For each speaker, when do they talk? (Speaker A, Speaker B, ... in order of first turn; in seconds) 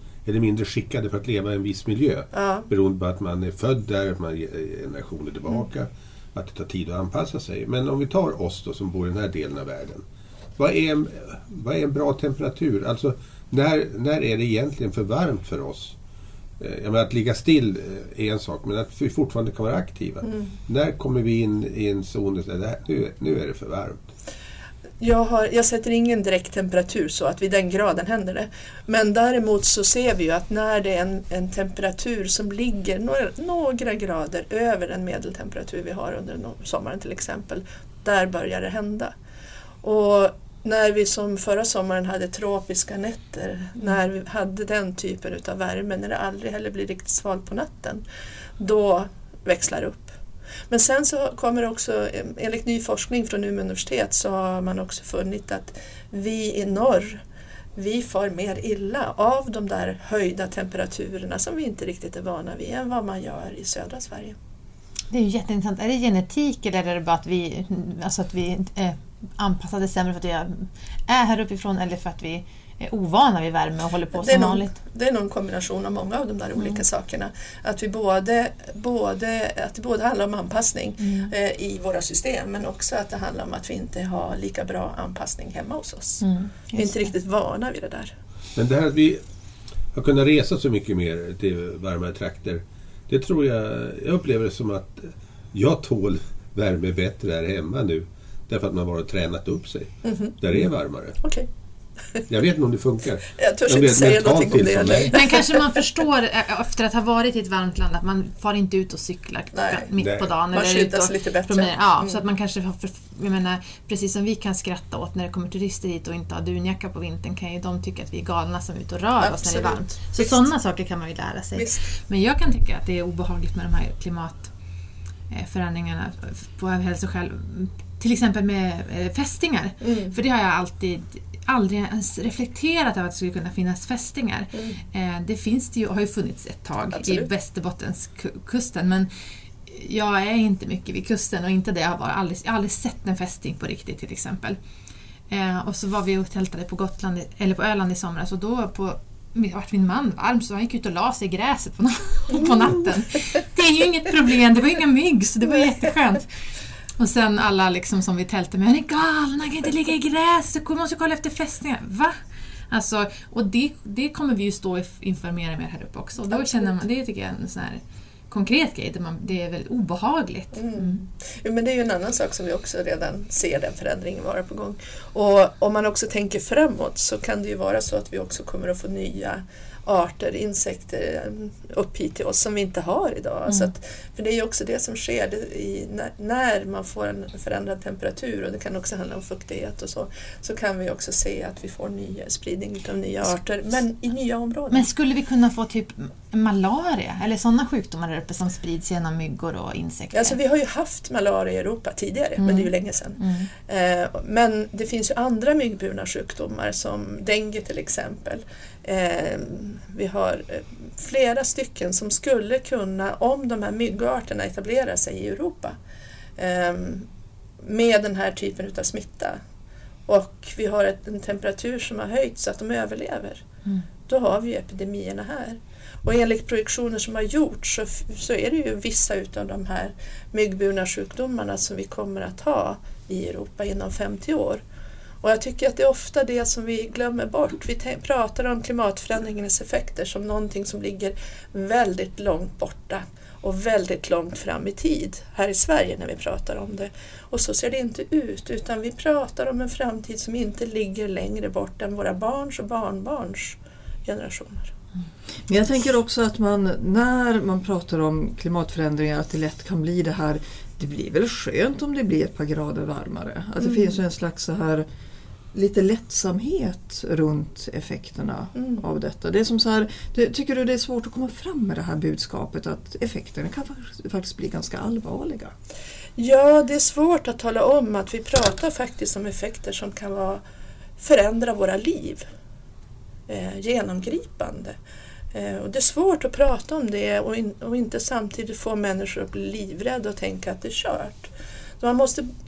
Speaker A: 0.2-10.0, 10.6-15.9, 16.6-24.0, 88.5-89.2, 89.9-101.2, 102.3-105.2, 110.0-110.3
Speaker B: 2.3-2.6, 25.0-39.1, 39.8-48.0, 48.6-50.1, 50.7-57.2, 57.8-64.3, 74.1-88.1, 100.0-100.4, 101.2-101.5, 103.3-105.8, 109.5-109.9, 110.5-112.2, 119.2-120.5, 121.5-121.9, 129.8-130.1, 134.5-134.8, 136.9-137.3, 166.3-166.8, 170.5-194.9, 200.1-215.8, 216.4-217.1, 217.6-219.4, 220.1-223.4, 224.1-234.6, 235.2-254.7, 268.5-268.8, 276.2-280.4, 281.0-282.2, 283.3-284.7, 285.3-292.3
Speaker C: 65.1-74.8, 81.0-81.3, 86.2-87.1, 105.1-124.5, 125.3-139.1, 139.7-144.6, 145.3-156.3, 157.0-162.1, 162.7-171.0, 194.7-200.3, 202.4-203.5
Speaker D: 255.5-264.9, 265.5-275.5